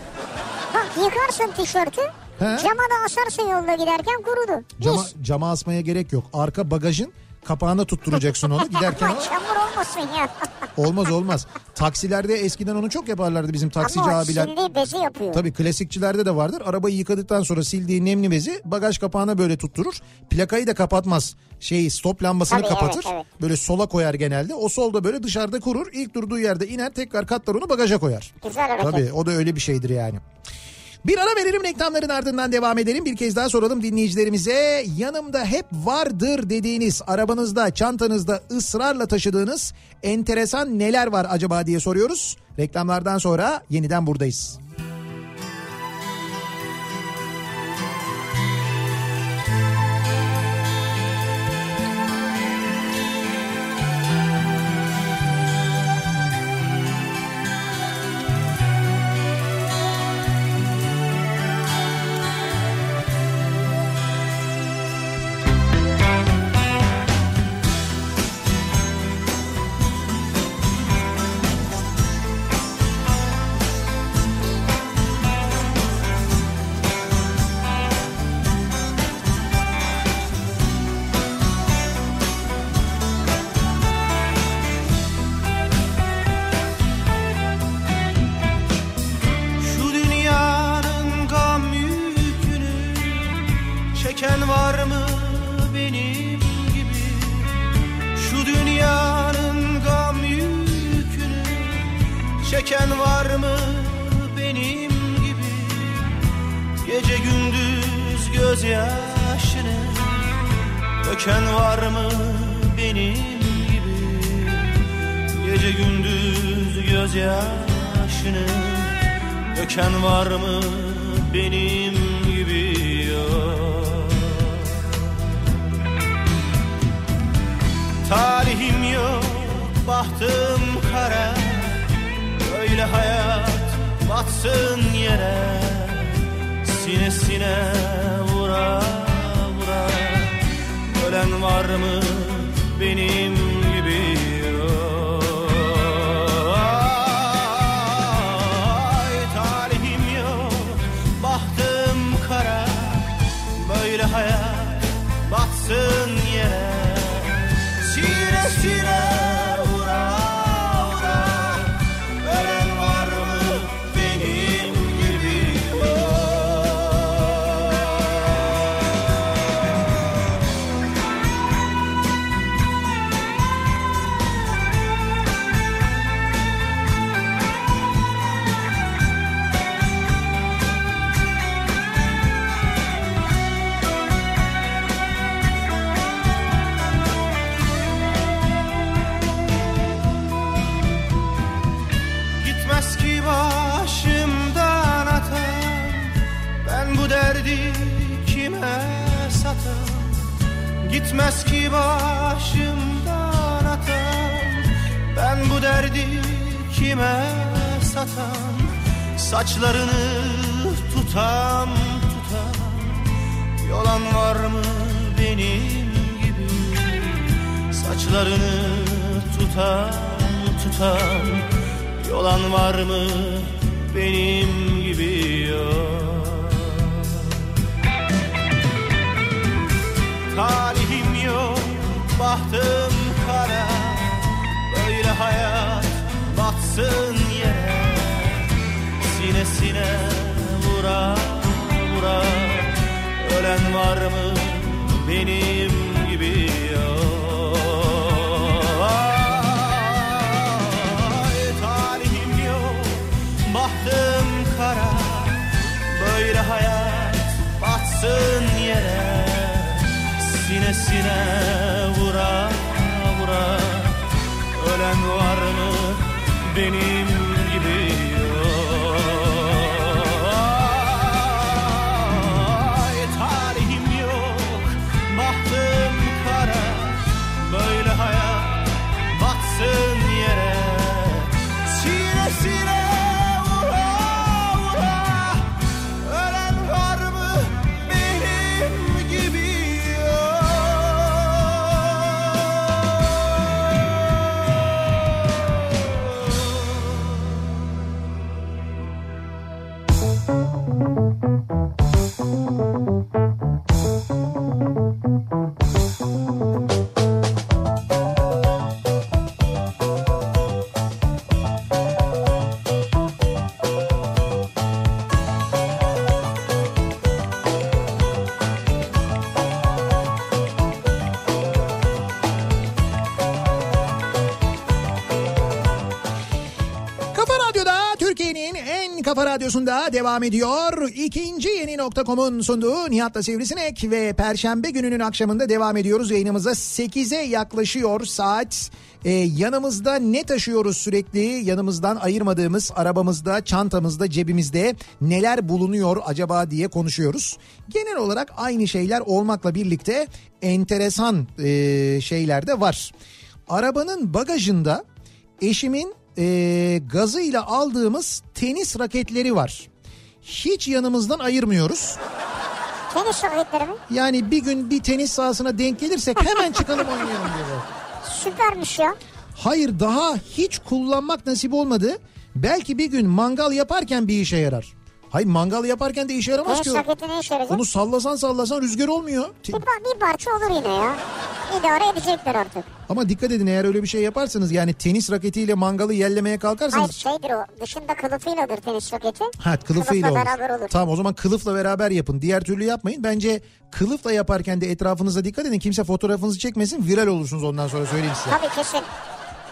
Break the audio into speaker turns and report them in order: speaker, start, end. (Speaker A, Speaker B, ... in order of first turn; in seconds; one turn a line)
Speaker A: 0.7-5.1
Speaker B: 2.4-2.7
Speaker B: 4.8-9.3
Speaker A: 8.6-10.7
Speaker B: 10.8-14.5
Speaker A: 13.8-15.4
Speaker B: 15.3-30.2
Speaker A: 22.5-23.2
Speaker A: 28.4-29.0
Speaker B: 31.0-44.6
Speaker C: 89.6-97.6
Speaker C: 98.1-106.2
Speaker C: 106.8-110.3
Speaker C: 111.0-119.0
Speaker C: 119.5-124.9
Speaker C: 128.0-168.4
Speaker C: 192.4-200.3
Speaker C: 200.8-227.3
Speaker C: 230.3-238.5
Speaker C: 239.0-294.7
Speaker C: 295.7-296.9
Speaker B: 327.1-352.9
Speaker B: 353.5-354.8
Speaker B: 355.4-359.7
Speaker B: 360.2-362.0
Speaker A: 362.9-363.8
Speaker B: 363.9-367.7
Speaker A: 368.0-369.0
Speaker B: 369.4-376.9
Speaker A: 376.5-377.6
Speaker B: 377.5-379.6
Speaker A: 379.5-382.7
Speaker B: 382.9-387.0
Speaker A: 386.7-390.7
Speaker B: 389.4-398.4
Speaker A: 398.3-398.9